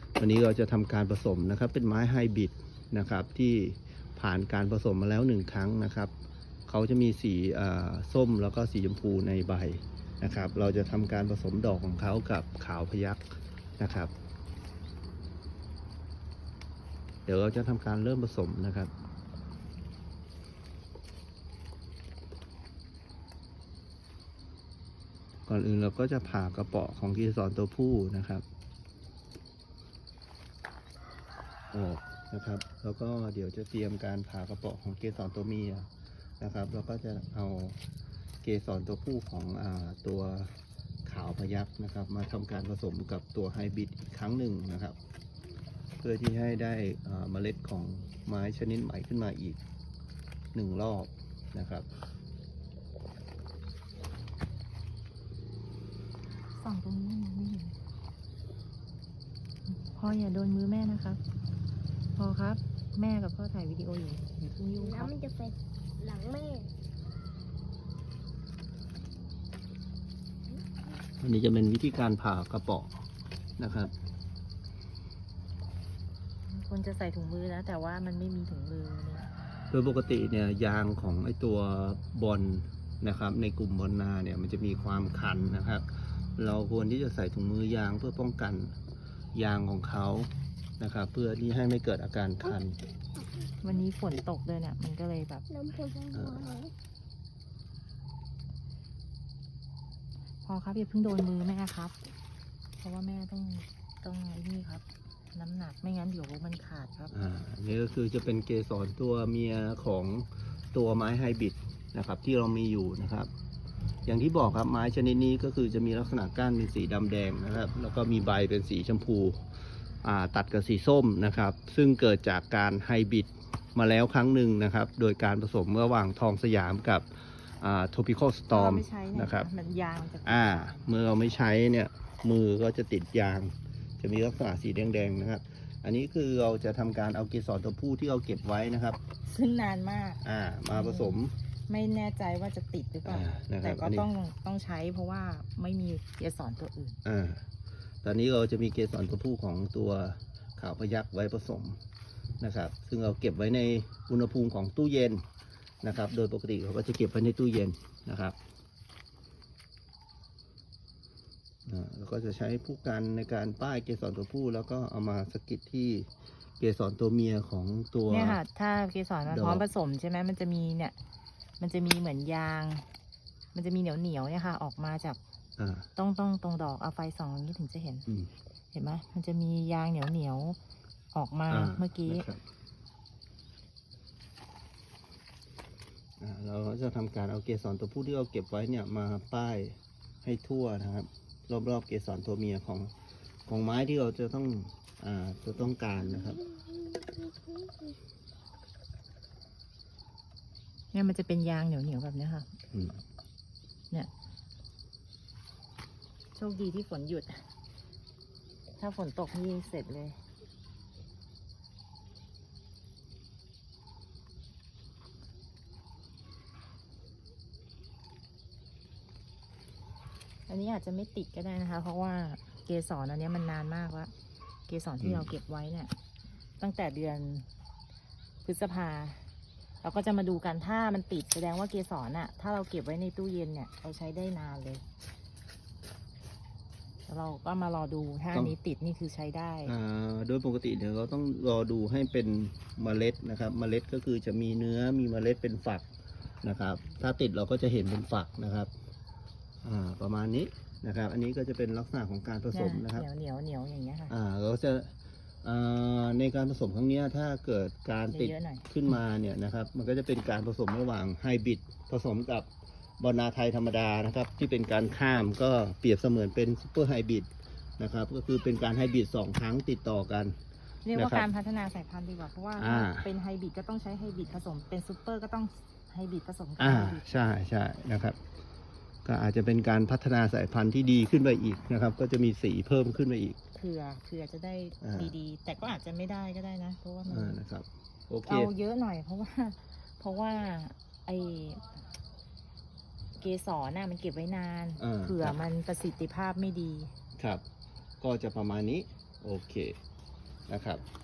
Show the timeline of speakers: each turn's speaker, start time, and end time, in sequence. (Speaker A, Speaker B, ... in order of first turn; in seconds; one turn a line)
Speaker A: 0.2-6.1
Speaker A: 6.7-13.2
Speaker A: 13.8-14.1
Speaker A: 17.2-18.9
Speaker A: 25.5-28.4
Speaker A: 31.7-37.8
Speaker A: 38.4-45.0
Speaker A: 46.0-49.6
Speaker A: 50.5-51.9
Speaker B: 56.6-57.8
Speaker B: 59.6-61.2
Speaker B: 62.1-65.1
Speaker C: 64.8-66.7
Speaker A: 71.2-73.0
Speaker A: 73.6-73.9
Speaker B: 76.5-79.3
Speaker A: 79.7-85.8
Speaker A: 86.3-88.8
Speaker A: 89.3-92.8
Speaker B: 93.6-95.5
Speaker C: 95.5-96.7
Speaker A: 96.1-96.5
Speaker B: 100.4-102.0
Speaker B: 102.8-107.1
Speaker A: 107.1-113.3
Speaker A: 114.0-119.4
Speaker A: 120.0-129.5
Speaker B: 128.5-130.7
Speaker A: 130.2-139.0
Speaker B: 139.2-147.0
Speaker A: 140.2-141.3
Speaker A: 143.0-144.1
Speaker A: 147.0-147.4
Speaker A: 148.0-151.8
Speaker A: 152.4-155.2
Speaker A: 155.8-158.3
Speaker A: 161.7-168.4
Speaker B: 168.1-170.9
Speaker A: 169.2-169.7
Speaker B: 171.6-172.9
Speaker B: 173.5-175.2
Speaker A: 175.6-175.9
Speaker B: 175.9-178.1
Speaker B: 178.7-180.6
Speaker B: 181.1-182.3
Speaker A: 181.5-182.4
Speaker A: 186.2-192.9
Speaker A: 193.5-196.5
Speaker B: 200.9-202.5
Speaker A: 202.7-203.0
Speaker B: 206.3-207.4
Speaker B: 208.8-210.2
Speaker B: 220.5-224.1
Speaker B: 224.7-225.9
Speaker A: 225.0-225.3
Speaker B: 226.6-227.5
Speaker B: 228.4-229.3
Speaker B: 229.8-234.8
Speaker B: 237.1-239.7
Speaker A: 239.6-245.8
Speaker A: 246.4-248.7
Speaker A: 249.6-253.1
Speaker B: 252.5-254.1
Speaker A: 254.1-270.4
Speaker B: 258.1-258.7
Speaker B: 270.8-277.2
Speaker A: 270.9-271.3
Speaker A: 272.6-273.1
Speaker A: 276.6-278.2
Speaker A: 279.0-283.4
Speaker B: 283.5-287.4
Speaker A: 284.8-285.1
Speaker A: 287.1-288.5
Speaker B: 288.2-291.8
Speaker B: 293.1-296.9
Speaker A: 294.8-295.4
Speaker A: 297.2-297.4
Speaker A: 298.0-299.8
Speaker A: 300.5-300.8